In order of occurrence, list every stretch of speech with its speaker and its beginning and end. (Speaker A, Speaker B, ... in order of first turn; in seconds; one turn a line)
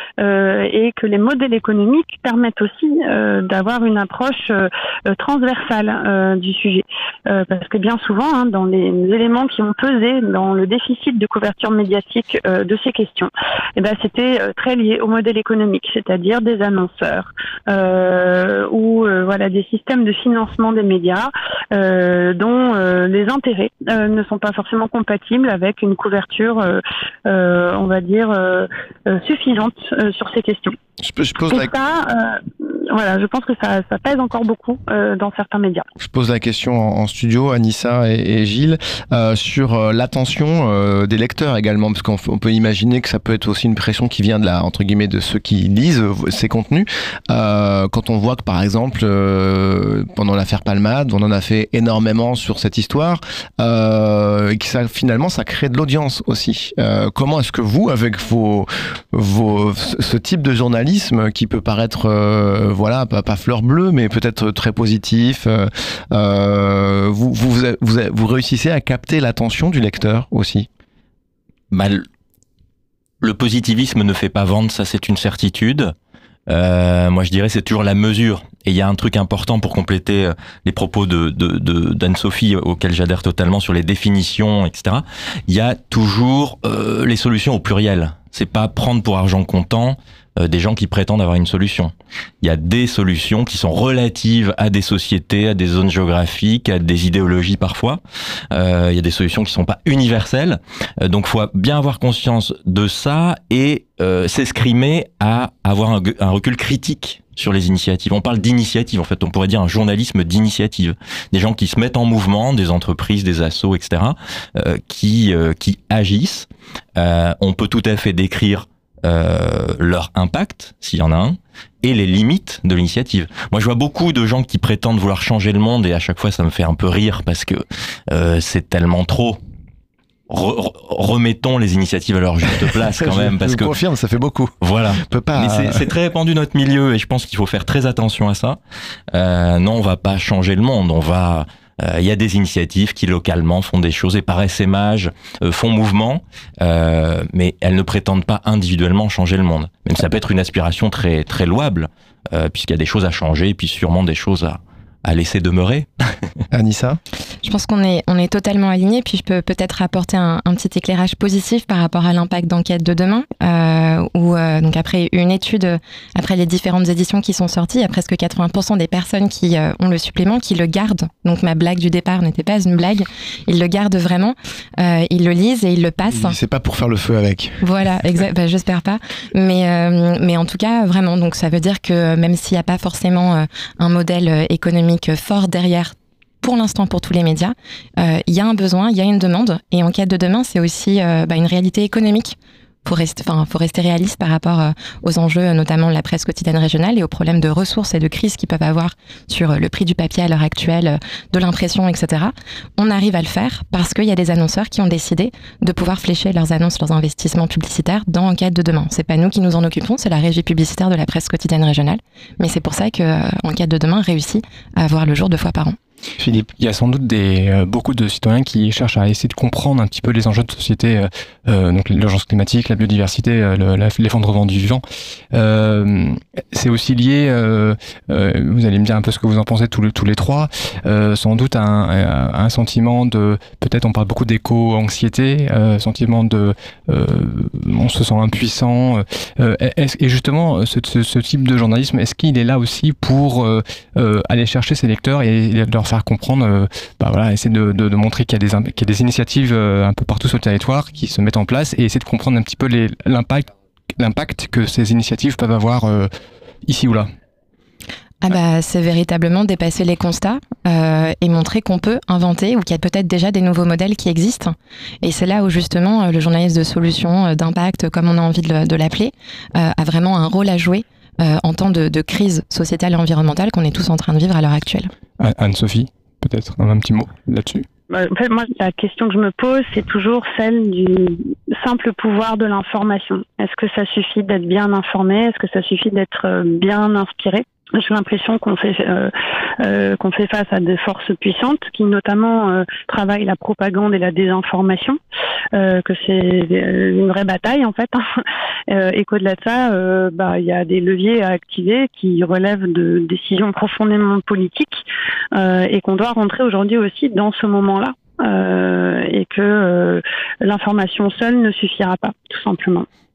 Speaker A: 0.2-30.8
Speaker B: 31.0-31.7
Speaker A: 31.5-35.9
Speaker B: 36.0-70.7
Speaker C: 71.7-72.0
Speaker C: 73.2-75.9
Speaker C: 76.5-98.0
Speaker C: 98.5-129.4
Speaker C: 130.3-133.7
Speaker B: 132.9-135.8
Speaker C: 134.6-138.6
Speaker C: 139.1-155.9
Speaker B: 156.5-157.0
Speaker D: 157.4-176.4
Speaker B: 176.1-177.7
Speaker D: 177.6-215.8
Speaker E: 216.2-256.1
Speaker E: 256.6-257.1
Speaker D: 258.2-274.9
Speaker E: 275.2-277.6
Speaker A: 277.9-295.0
Speaker A: 295.5-298.0
Speaker A: 298.7-304.8
Speaker A: 305.3-312.9